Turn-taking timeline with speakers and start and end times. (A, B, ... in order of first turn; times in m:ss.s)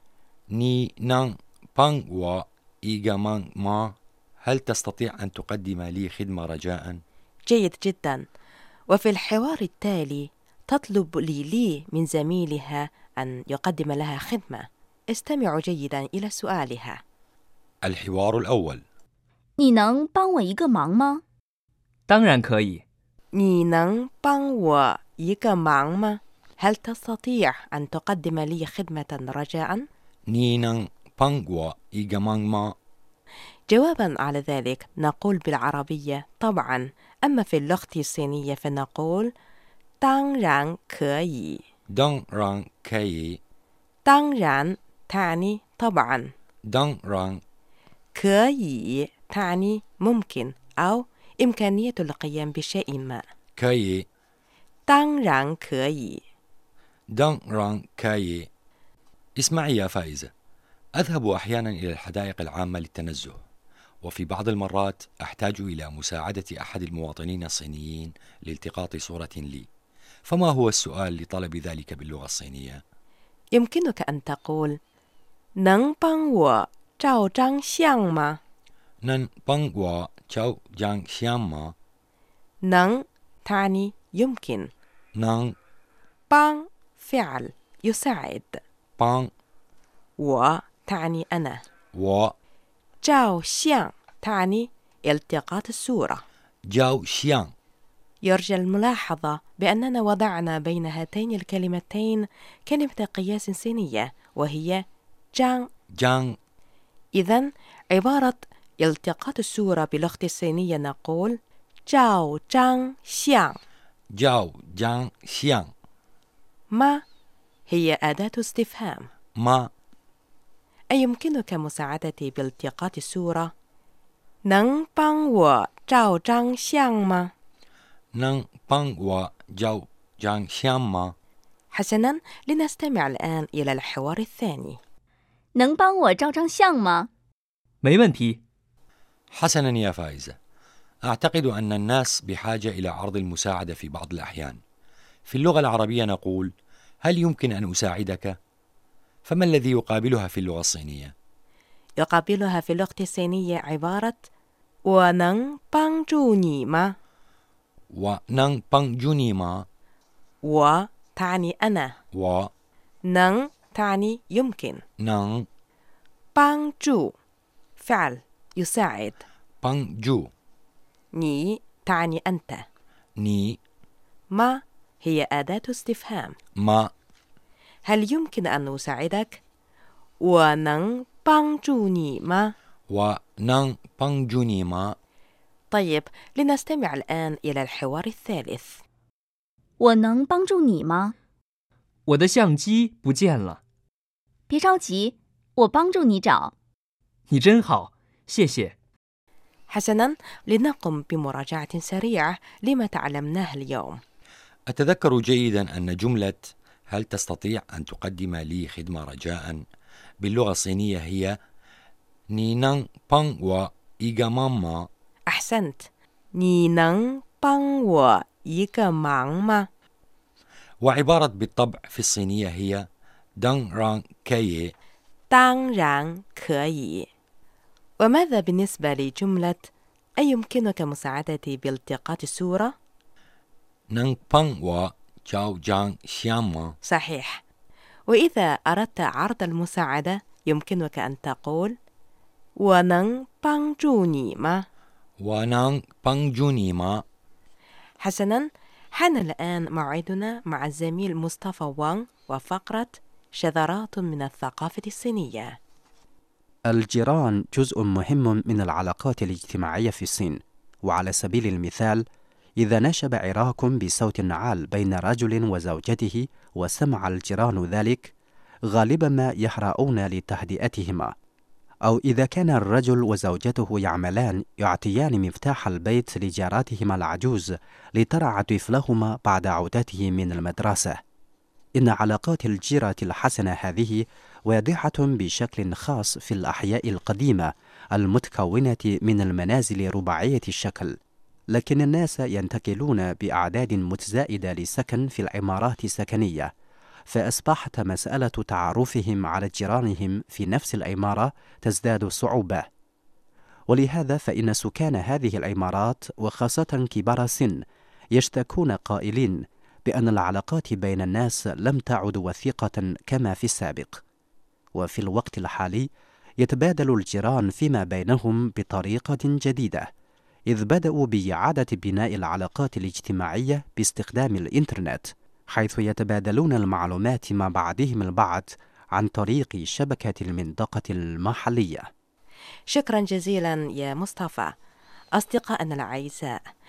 0:00.5-0:07.0 A
0:07.5-0:08.2 B
0:08.9-0:17.0 B
0:17.8-0:18.8 A
0:19.6-0:21.2 C
0:22.1-0:22.8 D
0:23.4-0:29.8 B
0:30.3-0:32.7 A
0:33.7-0:39.3 B
0:40.0-0:41.6 B
0:41.9-0:43.4 A
0:44.0-0:46.3 B
0:46.7-0:47.4 A
0:48.2-0:53.2 B
0:53.6-0:54.0 A
0:54.9-0:56.2 B
0:57.2-0:58.5 A
0:59.4-1:00.3 A
1:01.0-1:03.4 A
1:04.0-1:09.7 A
1:10.3-1:12.8 A
1:13.5-1:14.7 B
1:15.6-1:18.3 B
1:19.0-1:21.7 A
1:22.7-1:24.7 B
1:25.2-1:25.5 A
1:26.3-1:28.6 B
1:29.0-1:29.3 A
1:30.2-1:31.6 B
1:32.0-1:32.3 A
1:33.0-1:36.2 B
1:36.7-1:37.5 A
1:38.2-1:44.8 B
1:45.3-1:45.7 B
1:46.0-1:46.4 A
1:47.2-1:51.4 B
1:51.9-1:53.6 B
1:54.2-1:55.7 A
1:56.7-1:57.0 B
1:57.7-1:59.1 B
1:59.4-1:59.7 A
2:00.9-2:03.5 B
2:04.5-2:07.3 B
2:08.2-2:11.1 A
2:11.7-2:14.8 B
2:15.5-2:17.1 C
2:17.8-2:18.4 D
2:19.4-2:20.4 A
2:21.0-2:24.6 A
2:25.3-2:26.5 A
2:27.0-2:28.3 A
2:29.3-2:31.1 A
2:32.0-2:34.3 B
2:34.9-2:36.9 B
2:37.9-2:39.6 A
2:40.4-2:42.0 B
2:42.1-2:42.5 A
2:43.1-2:44.8 B
2:45.0-2:45.5 A
2:46.4-2:47.1 B
2:47.8-2:49.2 B
2:49.6-2:50.3 A
2:51.1-2:52.6 B
2:53.2-2:53.6 A
2:54.3-2:56.3 B
2:56.6-2:56.9 A
2:57.8-2:59.4 B
3:00.2-3:02.5 B
3:02.9-3:05.0 A
3:05.7-3:08.8 B
3:09.8-3:11.1 C
3:12.1-3:13.6 D
3:14.5-3:16.5 C
3:17.3-3:18.7 D
3:19.7-3:24.0 B
3:24.7-3:29.6 A
3:30.2-3:31.3 A
3:32.3-3:34.9 A
3:35.3-3:39.6 B
3:40.8-3:42.8 A
3:43.4-3:44.7 A
3:45.3-3:47.1 B
3:48.0-3:52.7 B
3:53.9-3:56.7 A
3:56.8-3:57.3 B
3:58.1-4:01.7 B
4:02.6-4:04.6 B
4:05.2-4:07.0 A
4:08.0-4:15.5 B
4:16.7-4:22.0 E
4:22.6-4:28.1 E
4:28.7-4:31.1 E
4:31.8-4:41.0 E
4:41.8-4:51.0 E
4:51.5-4:56.5 E
4:57.1-5:02.7 E
5:03.7-5:07.6 E
5:08.1-5:14.0 E
5:14.7-5:19.9 E
5:20.5-5:31.8 E
5:32.7-5:34.5 B
5:35.2-5:36.4 B